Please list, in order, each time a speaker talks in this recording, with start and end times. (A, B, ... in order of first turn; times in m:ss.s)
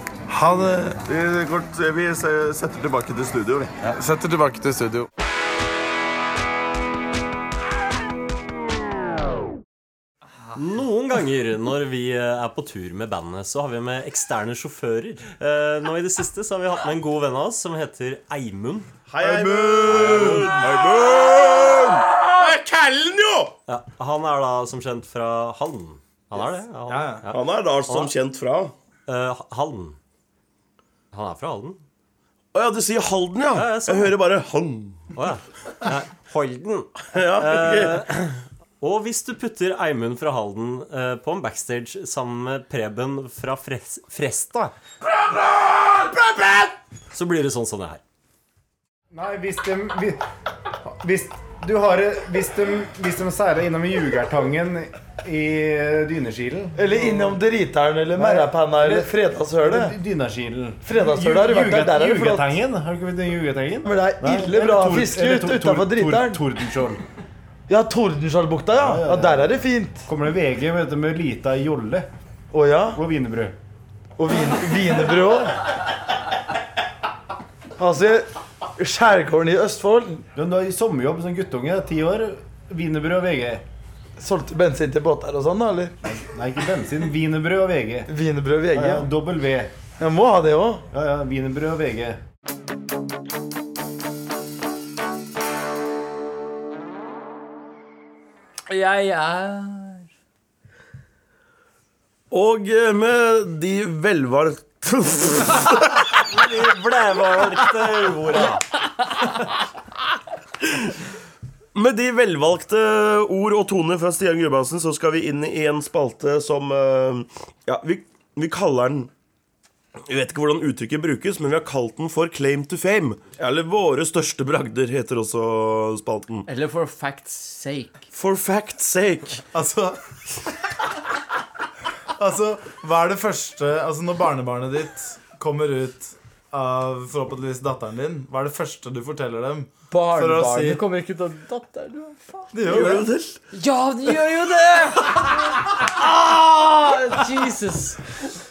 0:00.3-0:01.0 A
0:01.0-0:03.7 B
0:03.9-0:05.1 A
0:10.5-0:18.9 C
0:19.1-0:23.6 D
0:19.1-0:20.5 A
0:23.7-0:28.1 C
0:26.9-0:27.3 A
0:27.3-0:28.7 D
0:29.1-0:30.0 C
0:31.1-0:31.8 C
0:32.5-0:35.1 D
0:33.5-0:34.2 C
0:35.1-0:44.7 C
0:37.1-0:38.0 D
0:47.1-0:48.0 C
0:49.1-0:50.2 E
0:50.9-0:57.4 E
0:56.7-1:00.0 A
0:58.1-1:07.0 E
1:00.8-1:02.6 A
1:03.8-1:06.4 A
1:07.7-1:10.1 A
1:08.8-1:09.5 E
1:10.0-1:12.1 E
1:12.5-1:13.0 A
1:12.9-1:13.5 E
1:14.2-1:15.6 A
1:17.8-1:20.3 A
1:20.3-1:23.6 E
1:24.2-1:25.9 A
1:26.0-1:28.1 E
1:28.1-1:29.1 A
1:28.7-1:29.7 E
1:30.0-1:30.8 A
1:30.9-1:32.2 E
1:38.7-1:40.1 F
1:42.3-1:46.0 D
1:46.2-1:48.7 C
1:51.7-1:59.1 D
2:00.0-2:06.5 D
2:06.5-2:08.0 F
2:08.1-2:09.4 D
2:09.5-2:10.0 A
2:12.2-2:20.8 A
2:19.9-2:22.6 F
2:22.5-2:23.1 A
2:22.6-2:23.4 D
2:23.5-2:28.0 F